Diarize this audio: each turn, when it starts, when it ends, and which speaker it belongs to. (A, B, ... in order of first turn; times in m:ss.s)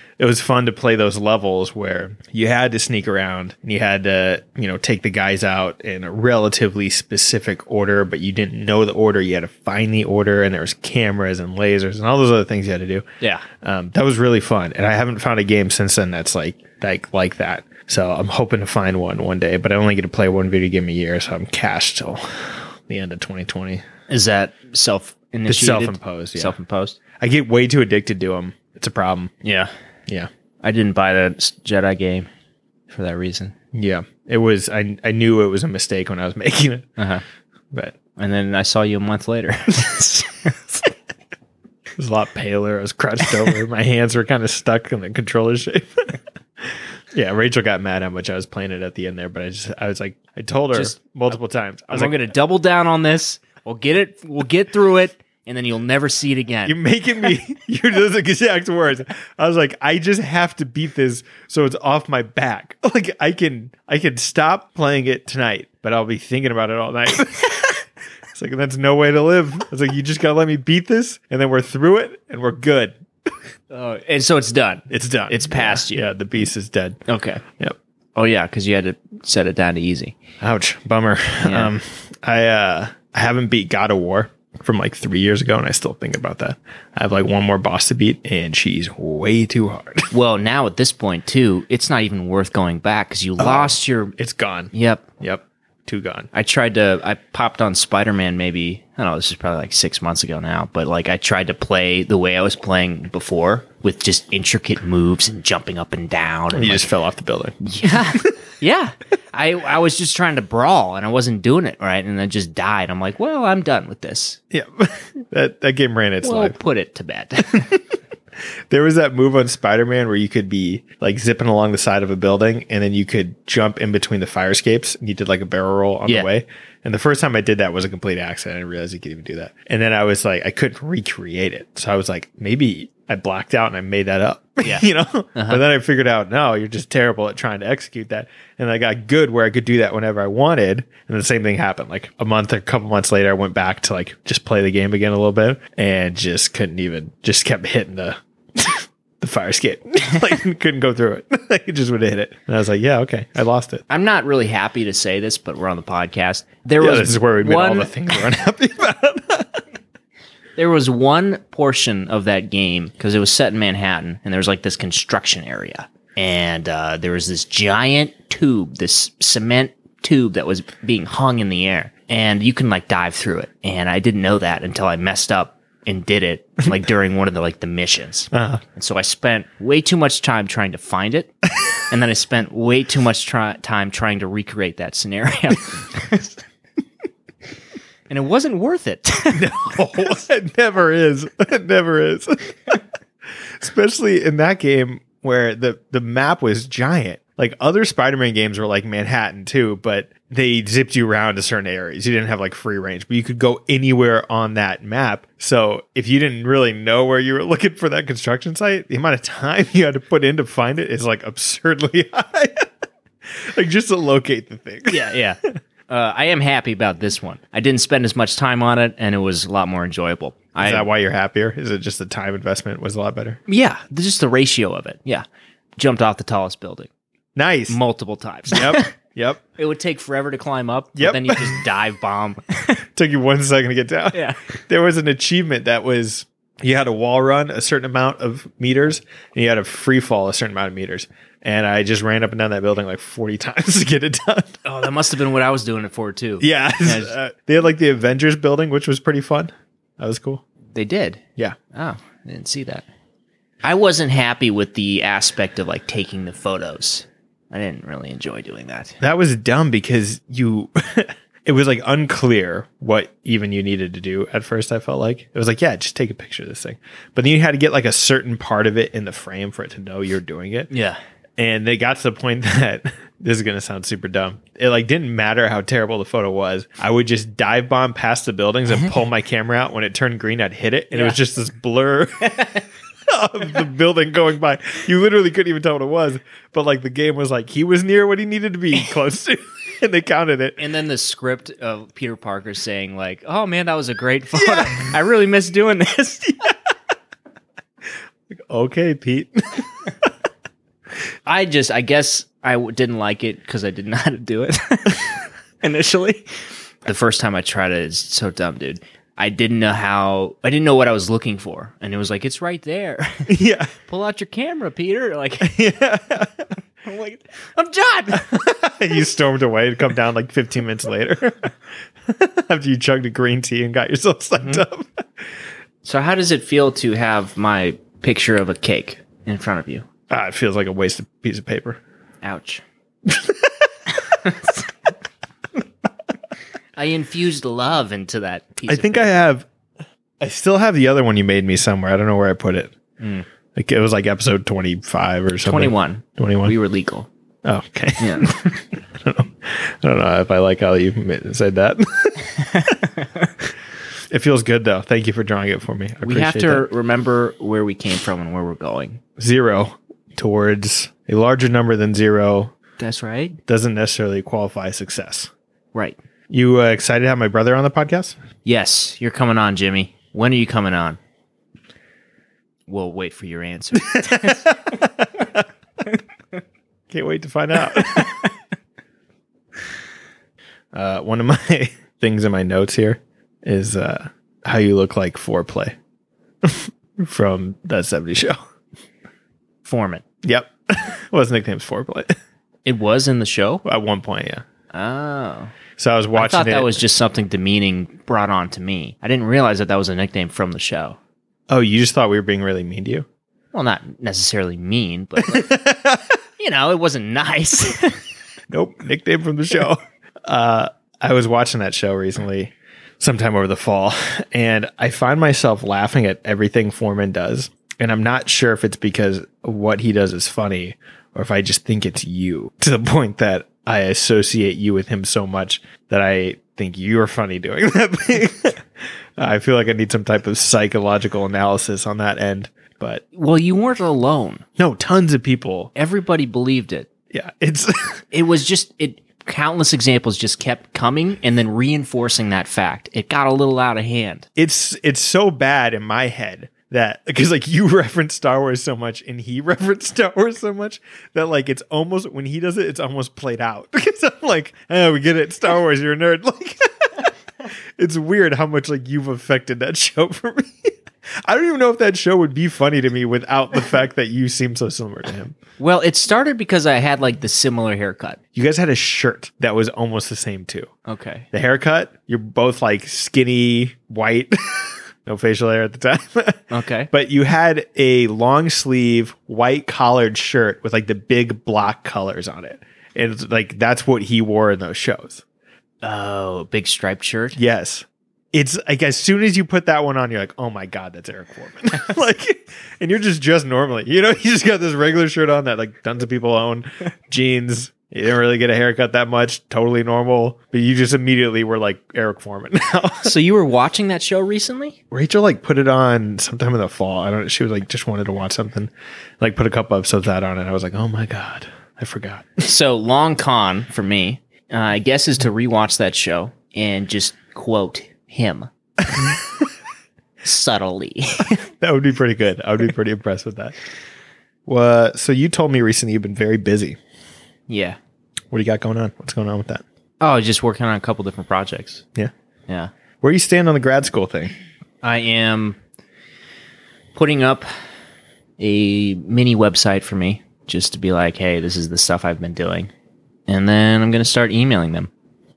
0:00.2-0:23.8 A
0:13.2-0:13.4 B
0:24.1-0:27.0 B
0:25.5-0:26.6 A
0:27.2-0:29.3 A
0:29.4-0:29.7 B
0:30.6-0:32.3 B
0:32.9-0:33.5 B
0:33.7-0:36.9 A
0:37.0-0:37.2 B
0:37.7-0:38.0 A
0:38.2-0:40.9 B
0:42.0-0:46.2 A
0:47.1-0:52.2 A
0:51.9-0:56.8 B
0:56.6-1:07.7 A
1:08.3-1:13.0 A
1:13.7-1:16.0 B
1:14.9-1:17.0 A
1:17.1-1:17.4 B
1:18.1-1:20.2 B
1:20.4-1:30.1 A
1:21.4-1:21.7 B
1:30.1-1:34.1 B
1:33.4-1:36.3 A
1:34.7-1:35.1 B
1:36.3-1:46.9 B
1:46.5-1:48.3 A
1:47.6-1:54.4 B
1:54.5-1:56.6 A
1:56.2-1:57.7 B
1:58.7-2:33.8 A
2:14.6-2:15.6 B
2:33.9-2:37.9 B
2:36.8-2:39.6 A
2:40.6-3:01.3 B
2:58.3-2:58.6 A
3:01.9-3:06.4 B
3:08.1-3:09.8 B
3:09.3-3:12.8 A
3:13.6-3:32.7 A
3:33.2-3:35.1 A
3:34.9-3:40.9 B
3:40.6-3:43.4 A
3:43.5-3:45.2 B
3:45.8-3:46.9 B
3:47.3-3:47.8 A
3:47.7-3:48.9 B
3:48.5-3:49.4 A
3:49.6-3:52.8 B
3:51.0-3:51.6 A
3:52.9-4:04.6 A
3:54.1-3:54.4 B
4:04.6-4:07.1 B
4:06.4-4:10.4 A
4:10.7-4:11.2 B
4:11.7-4:12.8 B
4:13.6-4:19.0 B
4:19.0-4:30.7 A
4:30.7-4:31.0 B
4:31.4-4:50.6 A
4:40.9-4:41.2 B
4:50.6-4:56.5 B
4:54.3-4:54.9 A
4:58.3-4:59.7 A
5:01.2-5:06.3 B
5:06.8-5:15.6 B
5:13.3-5:13.7 A
5:15.4-5:16.5 A
5:16.8-5:18.3 B
5:18.1-5:21.5 A
5:22.0-5:25.0 A
5:25.8-5:29.8 B
5:30.1-5:31.8 A
5:32.2-5:32.6 B
5:33.1-5:33.5 A
5:34.0-5:34.6 B
5:36.8-5:39.1 B
5:38.7-5:39.5 A
5:40.2-5:42.7 A
5:43.0-5:43.2 B
5:43.5-5:46.6 A
5:45.4-5:47.1 B
5:47.4-5:52.7 A
5:48.0-5:48.3 B
5:52.4-5:53.3 B
5:54.1-5:56.7 A
5:56.0-5:59.0 B
5:59.2-6:02.5 A
6:02.8-6:03.4 B
6:03.5-6:05.3 A
6:06.3-6:08.2 A
6:08.4-6:11.0 B
6:12.7-6:14.6 B
6:13.8-6:15.4 A
6:16.9-6:18.2 A
6:17.7-6:18.3 B
6:20.7-6:25.8 A
6:26.4-6:28.4 A
6:29.6-6:30.0 B
6:30.2-6:32.1 A
6:32.6-6:33.6 B
6:33.6-6:34.4 A
6:34.7-6:35.5 B
6:35.8-6:36.8 A
6:36.2-6:41.0 B
6:41.5-6:43.0 A
6:43.5-6:45.5 B
6:45.2-6:46.1 A
6:46.4-6:48.0 B
6:48.5-7:08.6 A
7:09.2-7:13.0 A
7:13.1-7:14.4 B
7:14.6-7:15.7 A
7:15.7-7:16.9 B
7:17.1-7:18.0 A
7:18.1-7:24.3 B
7:24.4-7:37.1 A
7:37.8-7:40.7 A
7:41.2-7:45.4 A
7:45.6-7:48.2 B
7:48.3-7:50.7 A
7:50.8-7:51.3 B
7:51.3-8:05.2 A
7:56.5-7:56.9 B
8:05.8-8:07.4 B
8:07.4-8:23.1 A
8:23.0-8:24.8 B
8:24.9-8:32.4 A
8:32.4-8:38.5 B
8:40.2-8:41.4 B
8:41.3-8:43.6 A
8:44.4-8:46.8 A
8:47.5-8:47.8 B
8:48.3-8:49.6 A
8:50.0-8:51.8 B
8:53.0-8:54.3 A
8:54.8-8:55.6 B
8:56.9-8:57.5 B
8:58.4-9:02.7 B
9:03.3-9:04.9 B